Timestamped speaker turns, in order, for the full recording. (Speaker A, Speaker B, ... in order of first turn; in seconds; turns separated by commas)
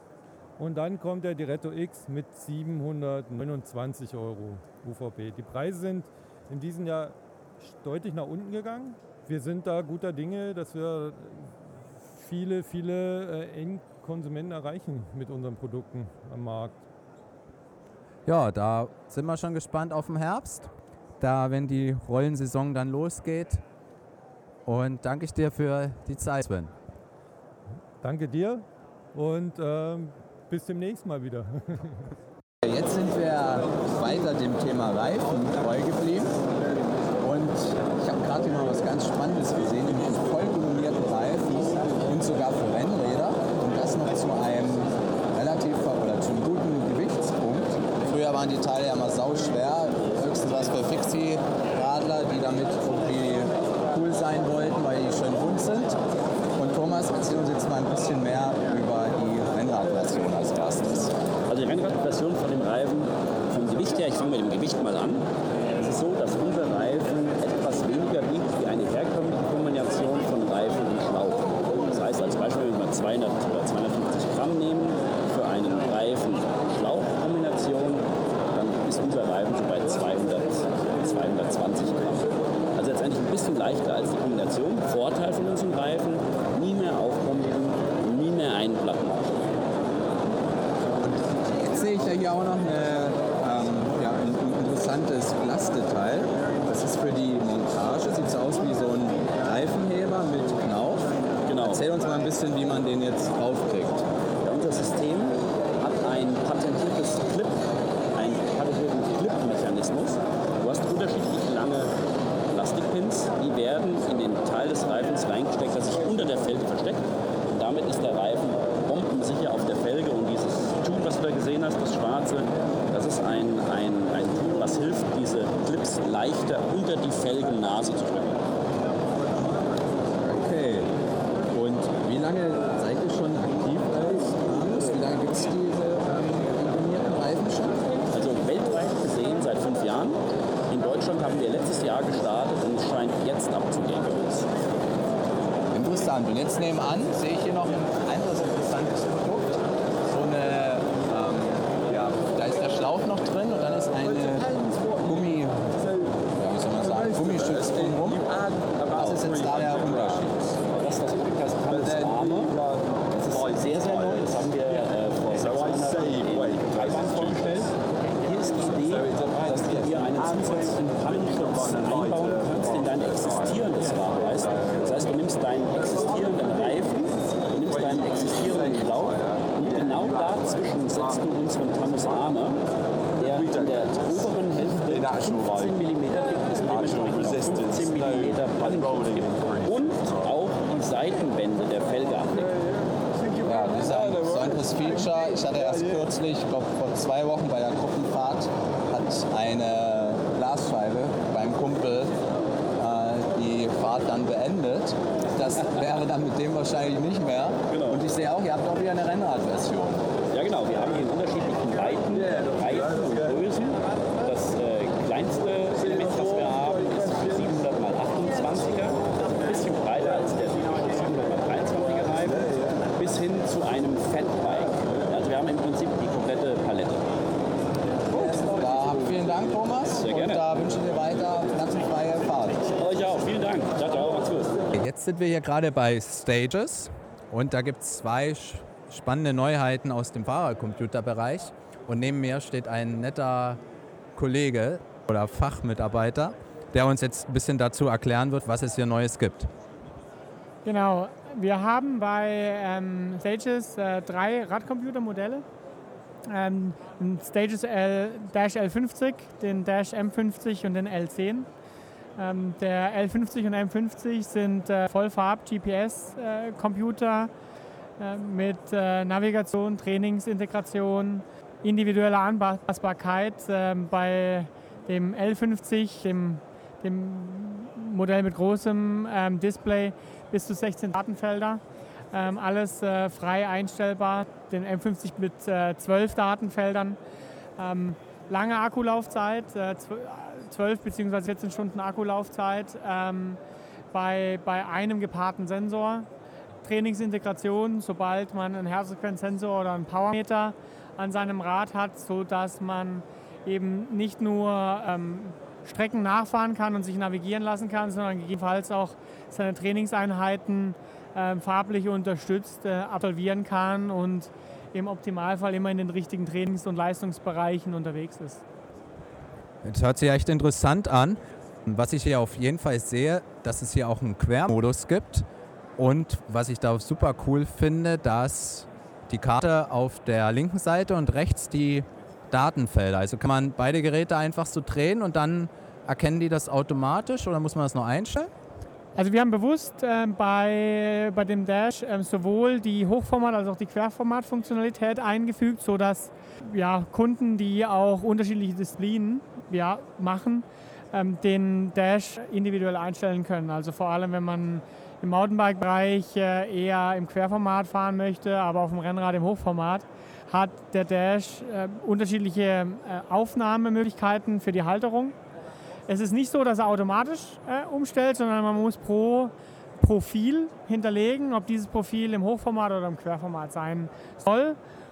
Speaker A: 0.6-16.8, Speaker B: 18.2-23.6, Speaker B: 24.6-26.7, Speaker A: 28.0-32.1, Speaker B: 32.6-36.4, Speaker B: 37.2-56.0, Speaker B: 56.5-61.1, Speaker C: 61.5-65.2, Speaker C: 65.8-82.2, Speaker C: 82.7-89.4, Speaker B: 91.0-101.1, Speaker C: 101.5-101.8, Speaker B: 101.6-104.0, Speaker C: 104.4-107.6, Speaker C: 108.1-111.9, Speaker C: 112.5-128.4, Speaker B: 130.2-130.9, Speaker B: 131.5-137.8, Speaker C: 138.1-144.5, Speaker B: 145.7-149.5, Speaker B: 150.1-158.2, Speaker B: 158.9-160.3, Speaker C: 160.7-162.6, Speaker C: 163.1-182.6, Speaker C: 183.2-192.6, Speaker B: 193.4-202.2, Speaker B: 202.8-210.1, Speaker C: 207.7-208.0, Speaker C: 210.3-227.1, Speaker C: 228.1-230.6, Speaker B: 228.2-232.7, Speaker C: 232.8-234.6, Speaker B: 234.7-243.6, Speaker B: 244.2-249.5, Speaker D: 250.6-255.4, Speaker D: 256.2-261.5, Speaker D: 262.2-267.3, Speaker D: 268.0-287.0, Speaker D: 287.6-293.4, Speaker D: 293.9-296.1, Speaker D: 296.6-318.4, Speaker B: 319.6-338.3, Speaker D: 338.9-365.1, Speaker D: 365.9-374.6